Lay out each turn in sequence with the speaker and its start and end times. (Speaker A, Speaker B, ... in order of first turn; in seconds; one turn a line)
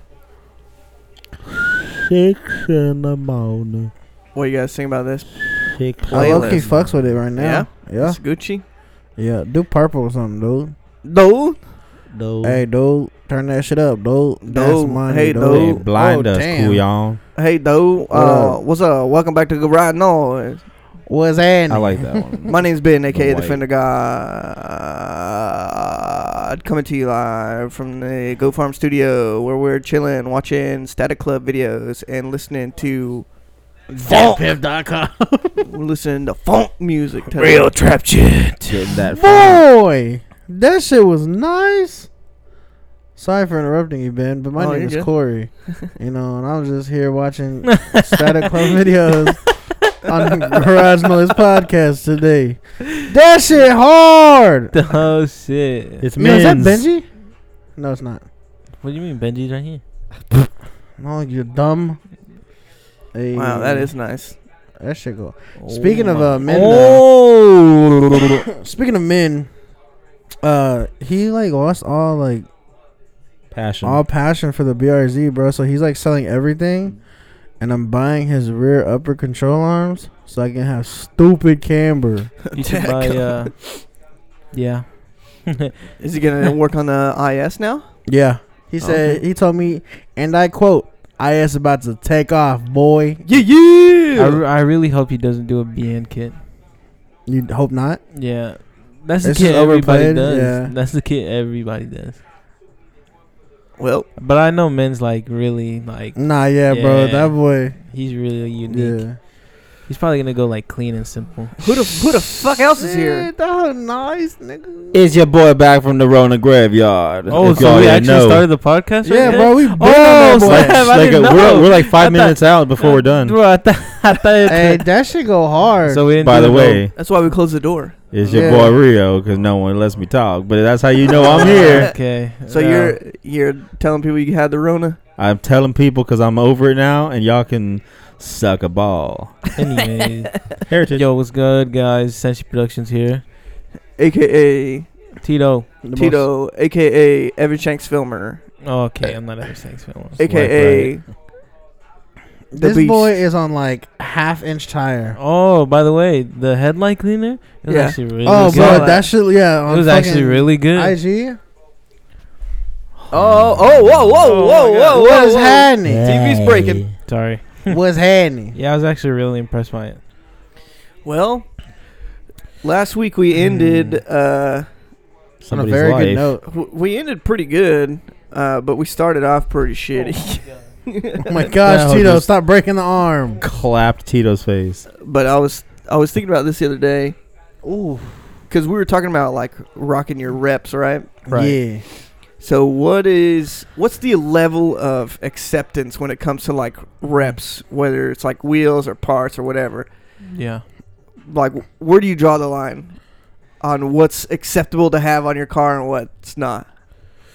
Speaker A: 1.9-3.9
Speaker B: 4.3-5.5
Speaker A: 5.5-7.2
Speaker B: 6.0-6.6
Speaker C: 6.1-8.2
Speaker B: 7.3-8.6
Speaker C: 9.2-10.7
Speaker B: 11.0-11.6
Speaker A: 12.1-12.6
Speaker C: 12.4-16.8
Speaker B: 14.4-15.8
Speaker A: 15.4-17.2
Speaker B: 17.4-20.6
Speaker C: 18.1-18.6
Speaker C: 21.1-22.4
Speaker A: 21.7-22.5
Speaker B: 22.5-33.3
Speaker A: 23.1-23.6
Speaker C: 33.9-35.7
Speaker B: 34.0-34.4
Speaker B: 35.6-37.7
Speaker D: 37.4-38.8
Speaker A: 38.6-39.6
Speaker C: 39.1-42.1
Speaker C: 43.1-54.7
Speaker B: 44.5-45.1
Speaker D: 47.7-48.2
Speaker D: 54.7-56.0
Speaker A: 56.0-56.8
Speaker C: 56.2-57.0
Speaker C: 57.8-58.2
Speaker D: 58.8-59.8
Speaker C: 61.0-62.0
Speaker C: 63.1-63.9
Speaker B: 63.3-64.4
Speaker C: 64.8-67.0
Speaker D: 65.6-68.4
Speaker C: 68.5-69.5
Speaker C: 70.4-72.5
Speaker A: 73.5-74.0
Speaker C: 73.8-77.0
Speaker C: 77.6-82.3
Speaker B: 82.5-83.6
Speaker D: 82.5-83.7
Speaker D: 84.5-85.7
Speaker B: 86.0-87.9
Speaker C: 88.0-93.3
Speaker B: 88.8-89.2
Speaker B: 93.2-94.4
Speaker D: 94.1-96.4
Speaker C: 97.2-98.0
Speaker D: 98.1-102.2
Speaker C: 99.2-100.7
Speaker B: 103.8-104.1
Speaker D: 104.2-109.1
Speaker C: 106.2-107.8
Speaker C: 108.7-109.2
Speaker D: 109.8-111.7
Speaker B: 111.6-113.3
Speaker C: 112.3-115.0
Speaker A: 114.9-118.5
Speaker D: 117.3-124.8
Speaker C: 119.0-120.9
Speaker A: 120.4-123.4
Speaker C: 124.5-126.1
Speaker D: 125.8-126.9
Speaker A: 126.2-126.9
Speaker B: 126.9-128.7
Speaker A: 128.1-131.9
Speaker C: 128.2-128.8
Speaker B: 131.1-132.0
Speaker D: 131.2-133.0
Speaker B: 132.5-135.0
Speaker A: 135.2-139.4
Speaker D: 139.6-143.2
Speaker A: 140.7-141.1
Speaker B: 144.0-144.9
Speaker D: 145.2-145.7
Speaker C: 145.8-146.3
Speaker B: 145.9-148.4
Speaker D: 148.6-150.2
Speaker B: 150.2-151.0
Speaker A: 150.2-151.0
Speaker C: 152.5-155.2
Speaker B: 152.6-153.1
Speaker D: 155.2-159.1
Speaker B: 157.7-159.1
Speaker C: 158.2-161.4
Speaker D: 159.7-161.0
Speaker A: 163.1-164.2
Speaker B: 163.1-166.9
Speaker D: 164.2-165.0
Speaker C: 164.9-166.1
Speaker A: 165.8-166.9
Speaker D: 167.0-167.8
Speaker C: 167.7-168.6
Speaker D: 168.5-170.0
Speaker B: 171.0-171.5
Speaker B: 172.6-174.7
Speaker D: 173.4-174.0
Speaker A: 175.4-176.3
Speaker C: 175.5-176.4
Speaker B: 176.4-181.5
Speaker D: 180.0-180.6
Speaker C: 181.2-183.4
Speaker A: 181.6-182.3
Speaker A: 183.4-184.8
Speaker B: 185.0-187.2
Speaker C: 187.6-188.3
Speaker B: 188.5-191.8
Speaker C: 191.3-191.8
Speaker B: 192.4-199.9
Speaker D: 200.3-200.6
Speaker B: 201.3-203.0
Speaker B: 203.6-206.7